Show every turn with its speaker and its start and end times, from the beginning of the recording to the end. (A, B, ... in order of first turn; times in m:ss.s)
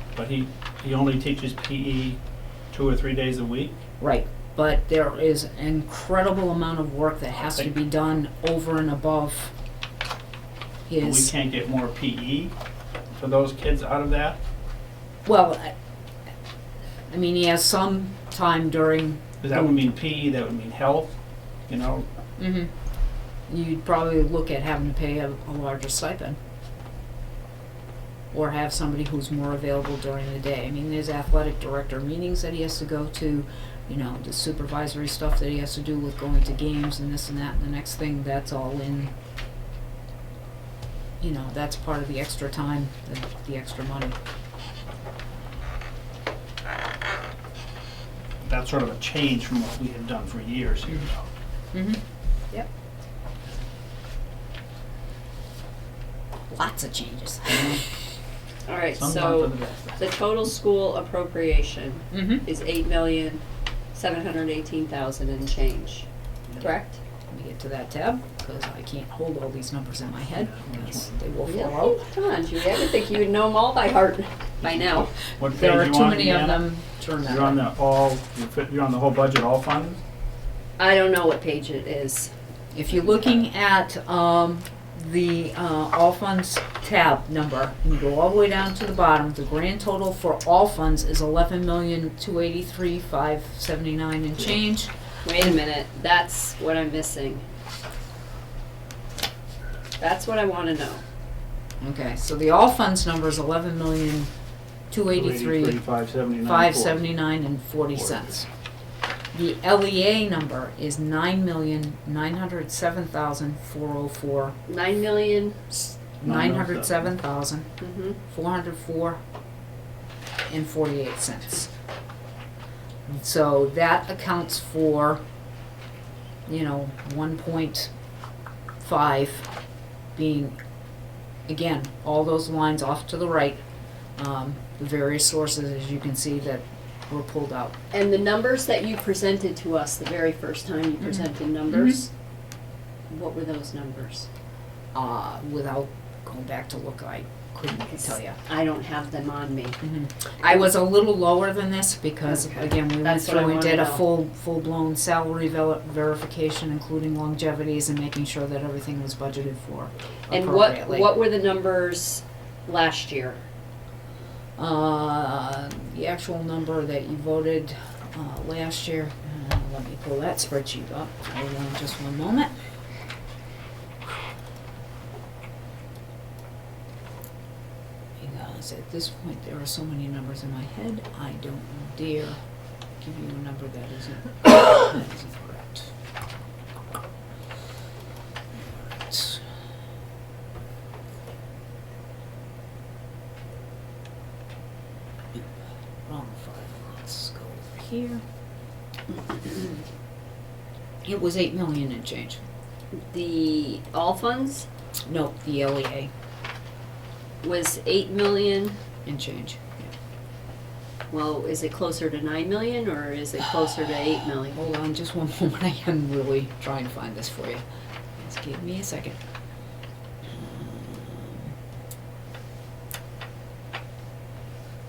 0:00.1-0:02.2 A
0:02.7-0:03.7 A
0:04.0-0:09.5 B
0:10.9-0:11.3 B
0:11.0-0:12.5 A
0:13.1-0:14.4 A
0:15.2-0:15.7 B
0:17.1-0:19.8 B
0:19.4-0:22.0 A
0:22.4-0:22.7 B
0:23.5-0:26.4 B
0:28.3-0:39.1 B
0:41.2-0:44.2 B
0:48.4-0:51.3 A
0:51.7-0:52.0 B
0:56.5-0:57.9 B
0:57.5-0:57.8 A
0:58.6-1:03.4 C
0:58.9-1:00.1 A
1:02.1-1:02.4 B
1:03.9-1:06.1 C
1:06.6-1:07.0 C
1:07.3-1:12.0 B
1:10.3-1:11.2 A
1:11.4-1:15.1 C
1:14.6-1:16.7 A
1:15.5-1:17.6 B
1:17.2-1:20.0 A
1:20.8-1:22.3 C
1:22.7-1:35.5 B
1:35.2-1:37.4 C
1:40.0-1:41.0 C
1:41.8-1:44.3 B
1:44.9-1:45.8 B
1:45.1-1:47.1 A
1:46.4-1:48.5 B
1:49.3-1:54.6 B
1:54.7-1:56.0 C
1:56.2-1:59.2 B
1:56.2-1:57.1 A
1:57.8-1:58.2 C
2:00.5-2:01.7 B
2:03.0-2:05.2 B
2:06.5-2:07.9 B
2:08.8-2:09.5 B
2:10.1-2:10.6 B
2:11.4-2:13.6 B
2:14.2-2:17.8 B
2:17.9-2:22.1 C
2:21.1-2:22.0 B
2:23.1-2:24.3 C
2:24.9-2:28.4 B
2:27.7-2:29.8 C
2:29.8-2:41.2 B
2:32.2-2:34.1 C
2:40.3-2:43.4 C
2:44.6-2:52.5 B
2:58.2-3:02.4 B
3:03.0-3:05.9 B
3:09.1-3:09.4 B
3:16.1-3:18.2 B
3:21.0-3:22.4 B
3:23.0-3:24.7 C
3:25.0-3:26.1 B
3:27.4-3:28.8 C
3:29.0-3:29.9 B
3:31.1-3:34.6 C
3:34.5-3:37.6 B
3:38.2-3:39.2 B
3:40.2-3:41.5 B